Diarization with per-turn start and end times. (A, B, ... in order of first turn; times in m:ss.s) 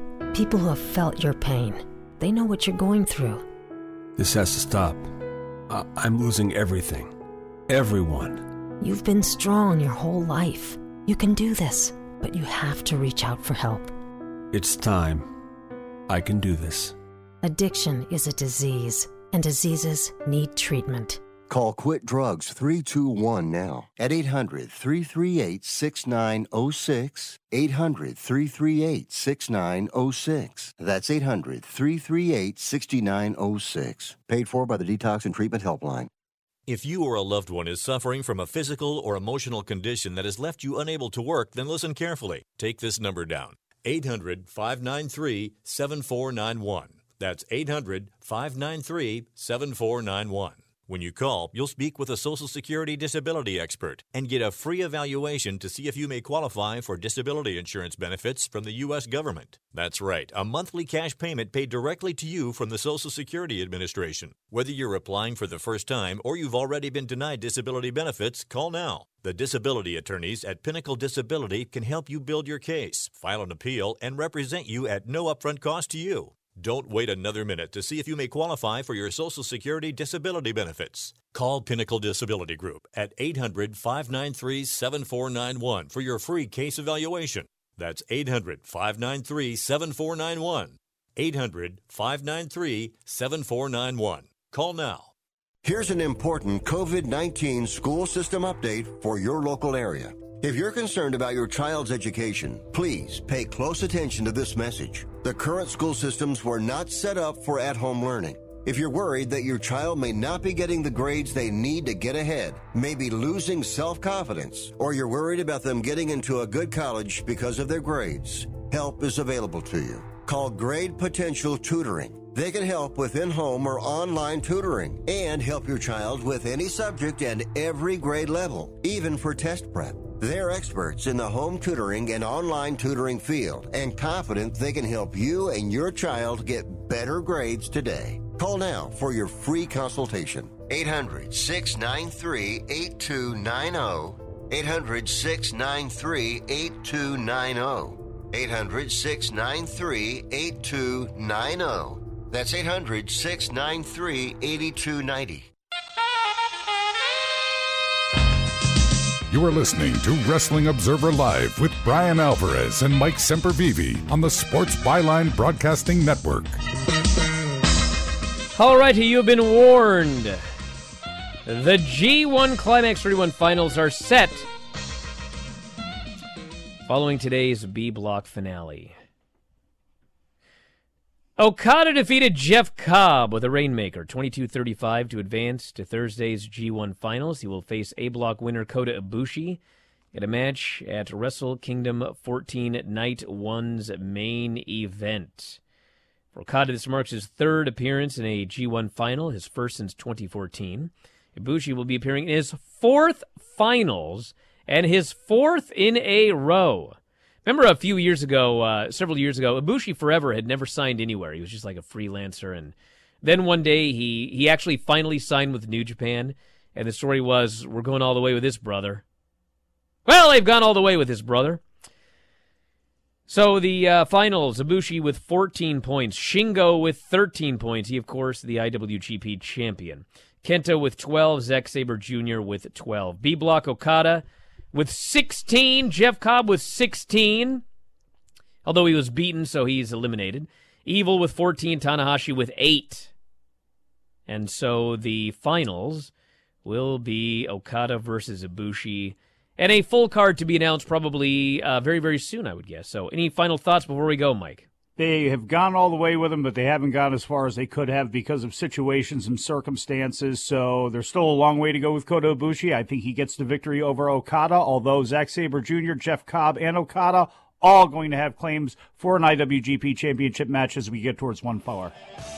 0:00.3-0:03.4 A
0:04.2-0:05.1 B
0:05.7-0:07.1 B
0:07.7-0:08.4 B
0:08.8-0:13.9 A
0:14.5-0:15.3 B
0:16.1-0:16.9 B
0:17.4-0:21.2 A
0:21.5-0:36.1 C
0:36.7-1:35.1 D
1:35.6-2:35.5 C
2:39.3-2:46.6 E
2:48.6-2:50.4 F
2:51.4-2:54.5 F
2:56.9-2:58.9 F
3:01.4-3:09.6 F
3:10.1-3:15.6 F
3:16.3-3:39.0 F
3:40.0-3:41.6 F
3:43.3-3:57.6 F
3:58.6-4:03.1 F
4:04.3-4:06.1 F
4:06.6-4:14.7 F
4:15.0-4:31.9 G